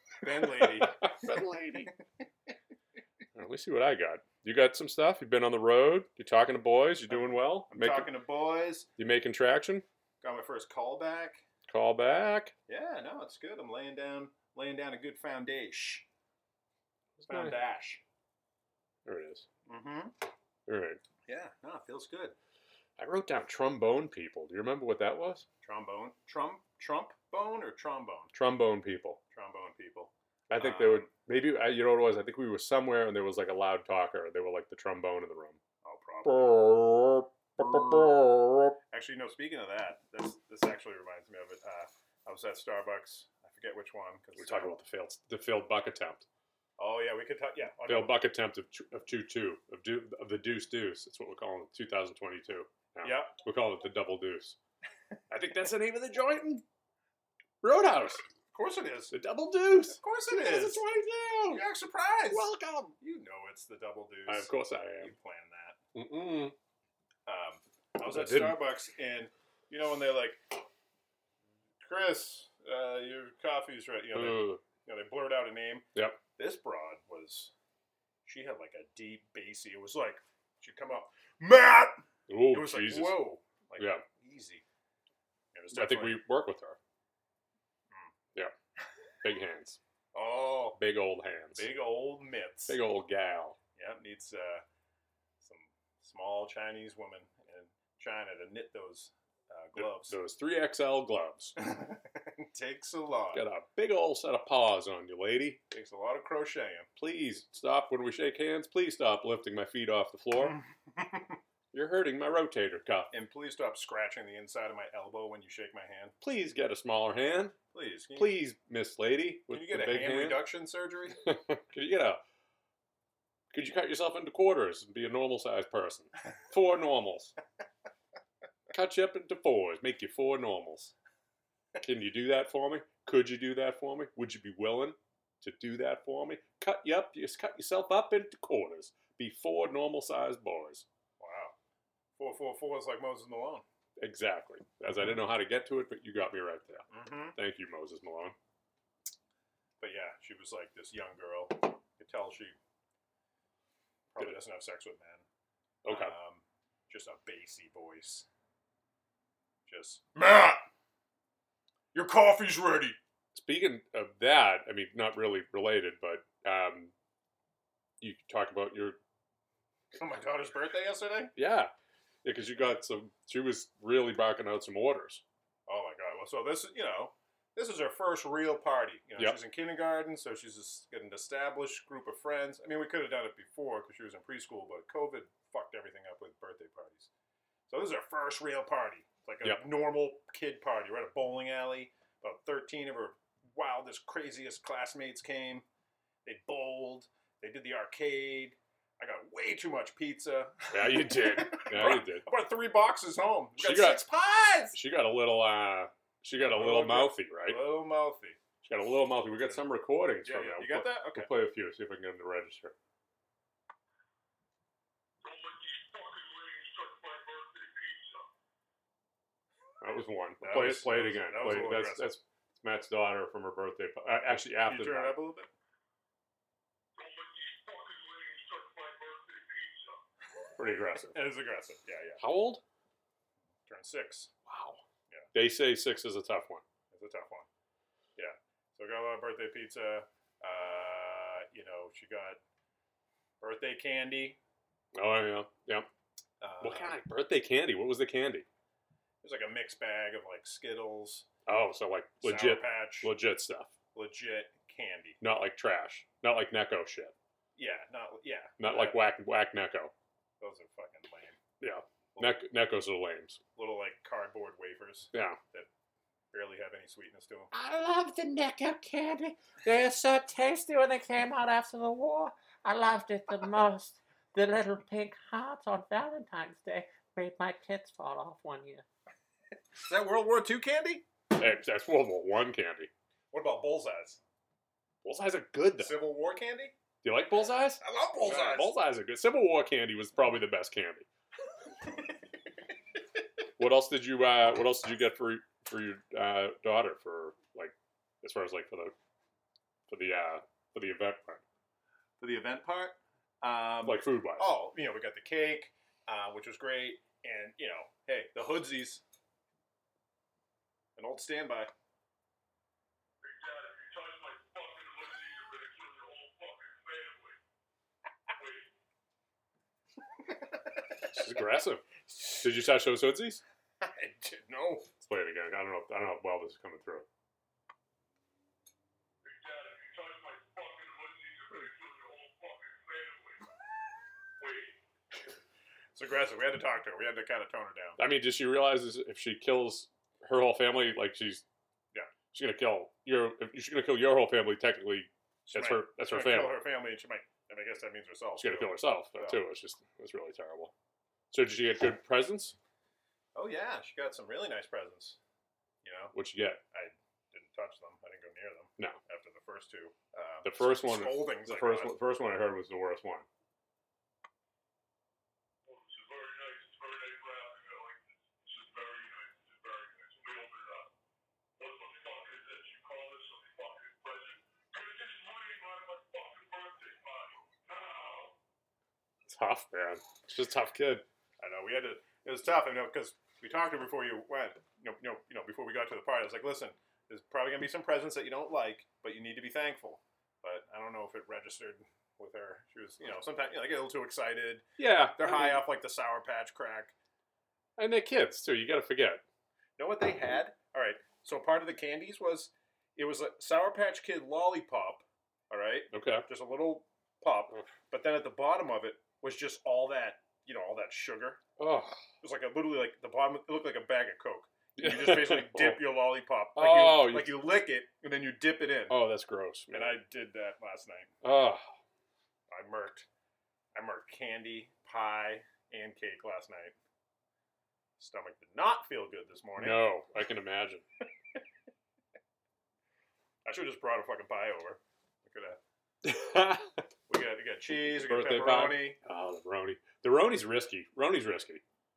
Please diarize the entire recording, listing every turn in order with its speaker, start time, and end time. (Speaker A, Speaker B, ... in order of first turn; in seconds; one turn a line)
Speaker A: 0.2-1.3
Speaker B: 0.4-1.9
Speaker B: 3.4-8.1
Speaker A: 7.1-8.9
Speaker B: 9.0-9.8
Speaker A: 10.2-11.4
Speaker B: 11.7-12.5
Speaker A: 12.7-16.1
Speaker B: 17.2-17.6
Speaker A: 17.3-18.0
Speaker B: 19.1-19.5
Speaker A: 19.7-20.1
Speaker B: 20.7-21.0
Speaker A: 21.3-22.4
Speaker B: 23.0-25.5
Speaker A: 25.6-28.3
Speaker B: 28.3-29.2
Speaker A: 29.3-31.1
Speaker B: 30.5-35.6
Speaker A: 35.8-36.6
Speaker B: 36.2-38.8
Speaker A: 37.6-38.1
Speaker A: 38.9-44.8
Speaker B: 44.4-46.2
Speaker A: 46.8-48.1
Speaker B: 47.9-54.6
Speaker A: 53.0-53.3
Speaker B: 55.3-56.6
Speaker B: 57.6-58.2
Speaker A: 58.5-59.1
Speaker B: 59.1-61.6
Speaker A: 59.9-60.8
Speaker A: 61.5-62.5
Speaker B: 62.3-63.0
Speaker A: 63.0-65.8
Speaker B: 64.3-65.1
Speaker B: 66.0-66.5
Speaker A: 67.3-70.4
Speaker B: 68.1-68.6
Speaker A: 71.8-75.9
Speaker B: 74.1-74.6
Speaker A: 76.4-77.5
Speaker A: 78.3-84.6
Speaker B: 82.3-83.2
Speaker B: 83.8-84.0
Speaker A: 85.5-86.2
Speaker B: 85.7-86.8
Speaker B: 89.2-89.8
Speaker A: 90.1-90.8
Speaker B: 90.8-91.7
Speaker A: 91.5-92.8
Speaker B: 92.7-93.6
Speaker A: 93.8-94.6
Speaker A: 95.4-100.2
Speaker B: 99.8-101.5
Speaker A: 101.6-103.5
Speaker B: 103.3-105.6
Speaker A: 105.7-106.9
Speaker B: 107.0-110.6
Speaker A: 110.4-111.4
Speaker B: 111.7-113.1
Speaker A: 113.1-116.2
Speaker B: 116.2-117.6
Speaker A: 117.7-118.4
Speaker B: 118.2-120.5
Speaker A: 119.5-121.2
Speaker B: 121.2-122.2
Speaker B: 123.5-127.3
Speaker B: 128.7-130.9
Speaker B: 131.8-140.8
Speaker A: 141.2-141.6
Speaker A: 142.2-143.6
Speaker B: 144.0-148.3
Speaker A: 146.9-147.4
Speaker A: 149.8-152.6
Speaker A: 154.1-155.2
Speaker B: 155.8-156.1
Speaker A: 155.9-158.3
Speaker A: 159.7-160.6
Speaker A: 161.9-163.0
Speaker B: 163.3-166.9
Speaker B: 168.0-169.0
Speaker A: 169.9-171.3
Speaker B: 171.4-171.7
Speaker B: 172.2-175.2
Speaker A: 175.7-187.1
Speaker A: 187.7-195.7
Speaker A: 196.2-204.8
Speaker B: 200.7-202.3
Speaker B: 203.6-204.1
Speaker B: 204.7-207.6
Speaker A: 206.4-208.4
Speaker B: 208.6-212.7
Speaker A: 210.2-211.3
Speaker C: 215.2-218.1
Speaker B: 215.3-217.9
Speaker B: 219.8-225.2
Speaker A: 220.4-222.2
Speaker A: 224.3-225.5
Speaker B: 227.0-229.7
Speaker C: 227.4-229.7
Speaker B: 230.6-231.2
Speaker A: 231.1-232.2
Speaker B: 232.2-232.6
Speaker A: 233.7-234.3
Speaker B: 234.5-234.8
Speaker B: 235.3-236.6
Speaker A: 236.9-237.5
Speaker A: 238.2-242.4
Speaker A: 243.4-244.4
Speaker B: 244.9-245.9
Speaker A: 246.4-247.0
Speaker B: 246.6-248.5
Speaker A: 249.2-251.3
Speaker B: 251.5-253.7
Speaker A: 252.2-253.1
Speaker A: 253.9-255.2
Speaker B: 255.2-257.1
Speaker A: 257.6-259.0
Speaker B: 258.6-259.9
Speaker A: 260.4-261.4
Speaker B: 261.6-263.4
Speaker A: 263.6-265.7
Speaker B: 265.1-265.4
Speaker A: 266.3-267.5
Speaker C: 267.5-278.8
Speaker A: 279.8-281.1
Speaker B: 281.3-282.9
Speaker A: 283.3-284.2
Speaker B: 285.0-286.0
Speaker A: 285.8-286.7
Speaker B: 287.0-291.1
Speaker A: 287.8-288.7
Speaker B: 293.6-298.9
Speaker B: 299.9-301.4
Speaker A: 302.2-309.0
Speaker B: 303.9-304.5
Speaker A: 311.0-311.7
Speaker B: 313.3-317.3
Speaker C: 313.4-317.3
Speaker B: 321.1-323.4
Speaker A: 323.8-324.9
Speaker B: 325.0-327.1
Speaker B: 329.2-333.4
Speaker C: 329.4-332.7
Speaker B: 334.4-334.7
Speaker A: 335.9-338.0
Speaker B: 338.0-341.4
Speaker B: 342.3-346.6
Speaker A: 345.5-349.4
Speaker B: 348.4-350.7
Speaker B: 351.3-352.6
Speaker A: 353.4-355.2
Speaker A: 355.8-356.1
Speaker B: 356.1-356.6
Speaker A: 356.7-361.9
Speaker B: 360.4-363.3
Speaker C: 365.9-367.9
Speaker C: 368.6-370.9
Speaker B: 370.2-370.5
Speaker C: 371.6-378.2
Speaker B: 371.6-372.8
Speaker B: 379.3-381.1
Speaker A: 381.4-396.9
Speaker B: 394.8-395.6
Speaker B: 397.8-399.2
Speaker A: 399.8-411.4
Speaker B: 405.9-406.3
Speaker B: 411.6-412.0
Speaker A: 412.2-419.0
Speaker B: 414.8-415.8
Speaker B: 416.6-417.4
Speaker B: 418.9-420.0
Speaker A: 419.7-421.1
Speaker B: 421.2-421.6
Speaker A: 422.5-423.1
Speaker A: 423.8-426.8
Speaker A: 428.0-429.8
Speaker B: 429.6-430.8
Speaker A: 433.4-435.6
Speaker B: 436.0-436.8
Speaker A: 437.1-439.0
Speaker B: 437.9-441.6